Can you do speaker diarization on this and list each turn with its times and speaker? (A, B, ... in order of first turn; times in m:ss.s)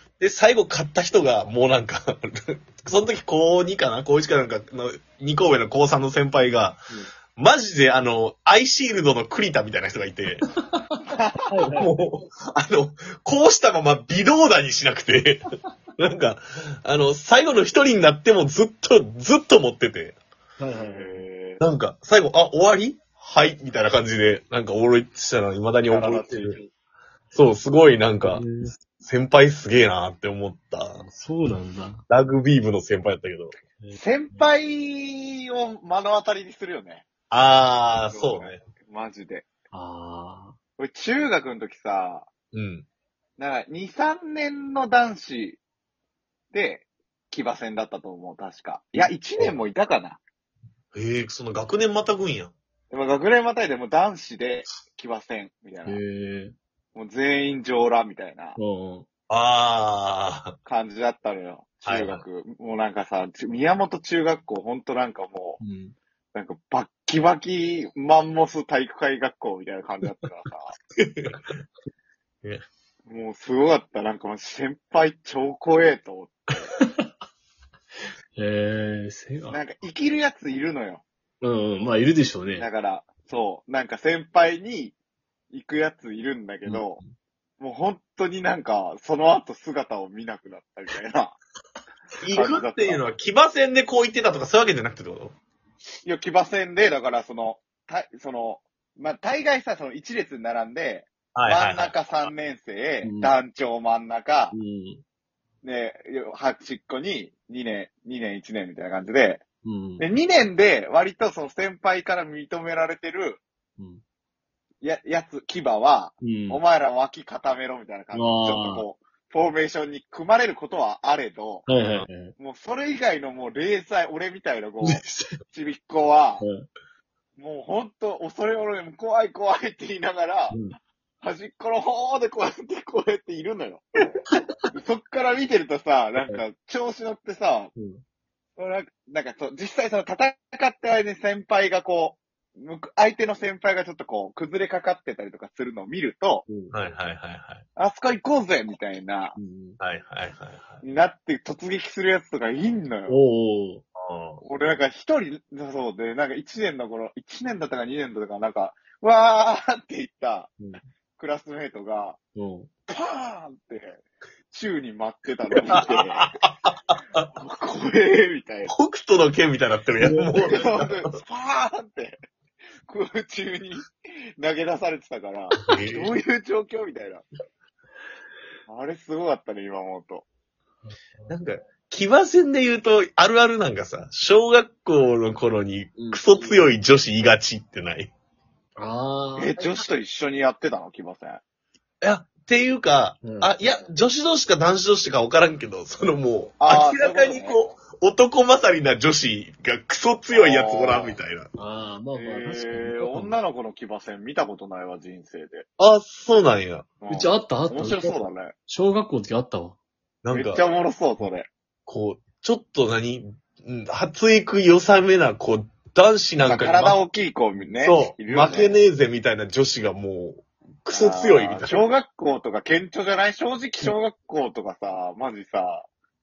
0:00.2-0:06.8 A
0:07.4-0:10.4 A
0:10.5-0:10.8 B
0:11.1-0:11.4 C
0:11.5-0:11.9 B
0:11.8-0:15.4 A
0:16.0-0:20.2 A
0:20.6-0:21.2 B
0:20.7-0:21.6 C
0:21.6-0:26.6 A
0:25.9-0:26.7 C
0:27.3-0:28.4 A
0:28.2-0:28.7 B
0:29.0-0:31.0 A
0:31.0-0:32.0 B
0:32.1-0:33.5 A
0:33.8-0:34.5 B
0:33.9-0:37.1 C
0:37.3-0:38.6 A
0:38.0-0:39.4 C
0:39.7-0:40.6 B
0:40.8-0:42.3 C
0:42.5-0:42.8 A
0:43.4-0:45.6 C
0:46.5-0:50.2 C
0:50.9-0:52.5 A
0:52.9-0:56.0 C
0:55.9-0:56.5 B
0:56.9-0:58.6 C
0:58.6-0:59.0 B
0:59.3-1:00.5 A
1:00.6-1:05.6 C
1:01.8-1:02.2 A
1:05.6-1:06.0 B
1:06.3-1:10.7 C
1:11.0-1:11.5 A
1:13.1-1:16.7 C
1:16.8-1:17.1 B
1:18.4-1:19.6 B
1:19.5-1:21.0 C
1:21.4-1:22.7 B
1:22.6-1:25.0 C
1:25.5-1:27.0 C
1:27.6-1:31.4 C
1:32.2-1:35.3 A
1:32.3-1:33.0 C
1:36.0-1:44.6 C
1:41.3-1:41.9 A
1:43.0-1:43.3 B
1:44.5-1:45.0 B
1:45.6-1:49.4 C
1:49.6-1:50.1 B
1:50.0-1:53.4 C
1:53.8-1:54.0 B
1:54.8-2:06.4 C
1:56.2-1:56.6 B
1:58.1-1:58.8 B
2:01.7-2:02.3 B
2:04.8-2:05.4 B
2:06.4-2:06.7 B
2:07.4-2:10.6 C
2:11.2-2:14.2 C
2:14.3-2:14.6 B
2:14.7-2:17.7 C
2:17.8-2:18.0 B
2:18.6-2:26.4 C
2:26.4-2:26.7 B
2:26.7-2:27.6 A
2:27.8-2:29.4 C
2:29.4-2:29.8 B
2:29.8-2:30.8 A
2:30.8-2:33.2 C
2:33.1-2:33.8 B
2:33.9-2:34.4 A
2:34.4-2:40.5 C
2:41.2-2:42.2 C
2:42.3-2:42.7 B
2:42.9-2:46.3 C
2:45.7-2:47.2 A
2:47.4-2:48.7 C
2:48.7-2:51.1 A
2:50.0-2:50.3 B
2:50.4-2:52.2 C
2:52.9-2:57.2 C
2:55.5-2:56.1 A
2:58.7-3:00.2 C
3:00.9-3:01.3 B
3:01.3-3:08.1 A
3:06.0-3:06.6 B
3:08.8-3:09.8 B
3:09.4-3:11.4 C
3:12.0-3:21.5 A
3:13.2-3:13.5 B
3:16.6-3:17.6 C
3:20.3-3:21.2 C
3:21.6-3:23.4 B
3:22.1-3:25.6 C
3:25.8-3:26.9 A
3:27.0-3:28.5 C
3:27.1-3:29.8 B
3:30.2-3:30.6 A
3:30.3-3:31.5 C
3:31.9-3:37.0 A
3:36.4-3:38.8 C
3:37.8-3:41.9 A
3:40.9-3:45.9 C